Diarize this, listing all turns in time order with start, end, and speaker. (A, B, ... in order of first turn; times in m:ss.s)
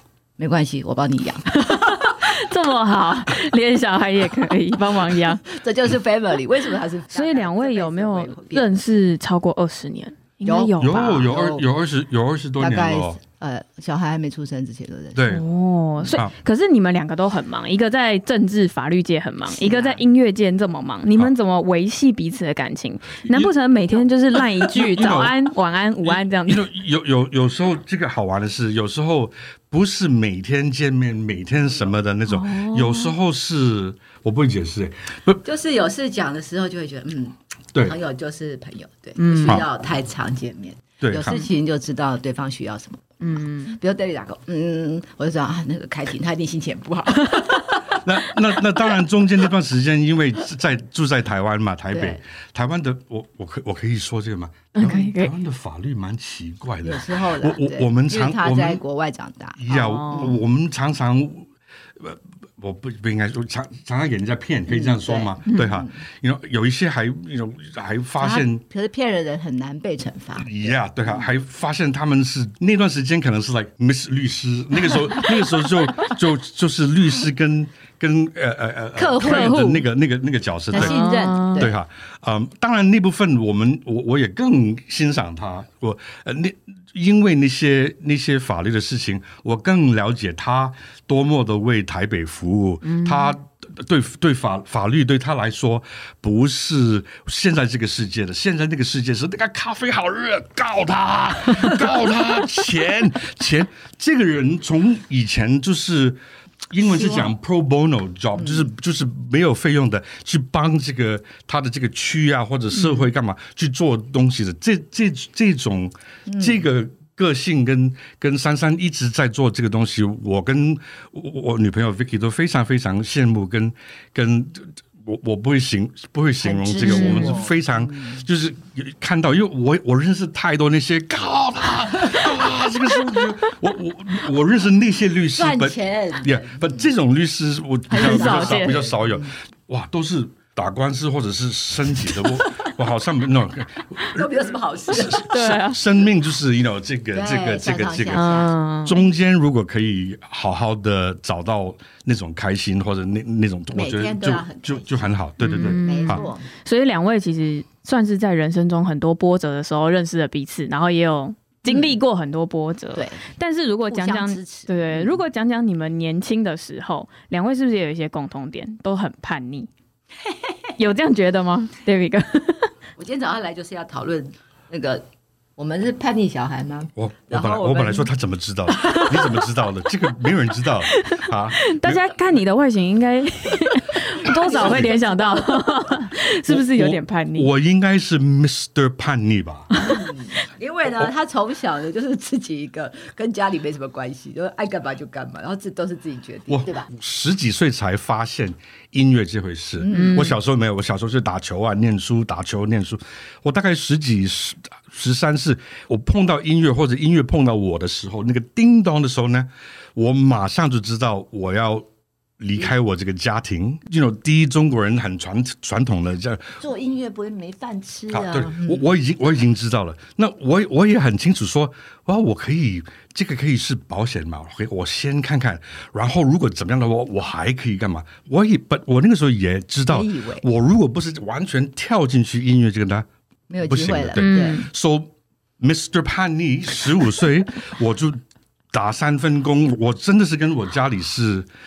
0:00.4-0:02.2 A
0:01.5-0:05.5 B
0:05.4-0:08.8 A
0:07.1-0:11.3 B
0:10.4-0:11.6 A
0:10.8-0:13.2 C
0:12.6-0:15.2 A
0:15.2-0:15.4 C
0:15.3-0:26.7 B
0:16.0-0:16.3 C
0:19.5-0:20.0 A
0:23.2-0:23.5 C
0:24.7-0:25.3 C
0:26.0-0:35.4 C
0:32.3-0:33.2 B
0:35.4-0:48.0 A
0:39.2-0:39.6 B
0:41.0-0:41.4 C
0:43.2-0:43.8 B
0:47.9-0:58.8 C
0:51.9-0:52.2 A
0:54.8-0:55.3 B
0:56.8-1:00.4 A
0:59.6-1:08.6 C
0:59.7-1:00.3 B
1:04.7-1:06.0 A
1:08.2-1:11.3 A
1:10.4-1:21.0 C
1:19.0-1:19.9 A
1:20.7-1:21.8 A
1:20.7-1:21.7 B
1:21.6-1:46.2 C
1:32.8-1:33.4 B
1:46.7-2:36.3 C
1:46.8-1:47.3 A
1:48.4-1:48.7 A
1:52.8-1:53.0 B
1:56.3-1:56.6 A
2:06.4-2:08.3 A
2:06.8-2:07.4 B
2:15.3-2:16.9 A
2:17.9-2:19.3 A
2:17.9-2:18.8 B
2:24.1-2:25.3 A
2:25.1-2:25.8 B
2:27.1-2:28.6 A
2:28.1-2:29.0 B
2:33.7-2:36.5 A
2:35.4-2:49.7 B
2:41.7-2:42.0 A
2:42.9-2:43.3 A
2:43.9-2:45.2 A
2:50.2-2:50.7 A
2:50.8-2:52.7 B
2:53.0-2:55.1 A
2:55.6-2:58.1 A
2:57.0-3:02.0 C
2:58.8-2:59.1 A
3:00.9-3:07.5 B
3:04.2-3:06.1 A
3:04.4-3:04.9 C
3:06.5-3:09.7 C
3:09.8-3:16.9 A
3:16.5-3:31.9 C
3:19.8-3:20.3 A
3:19.9-3:20.4 B
3:32.4-3:36.6 C
3:36.6-3:38.8 A
3:38.1-3:53.1 C
3:49.9-3:50.5 A
3:53.5-3:54.7 A
3:53.6-4:01.5 C
3:54.2-3:54.7 B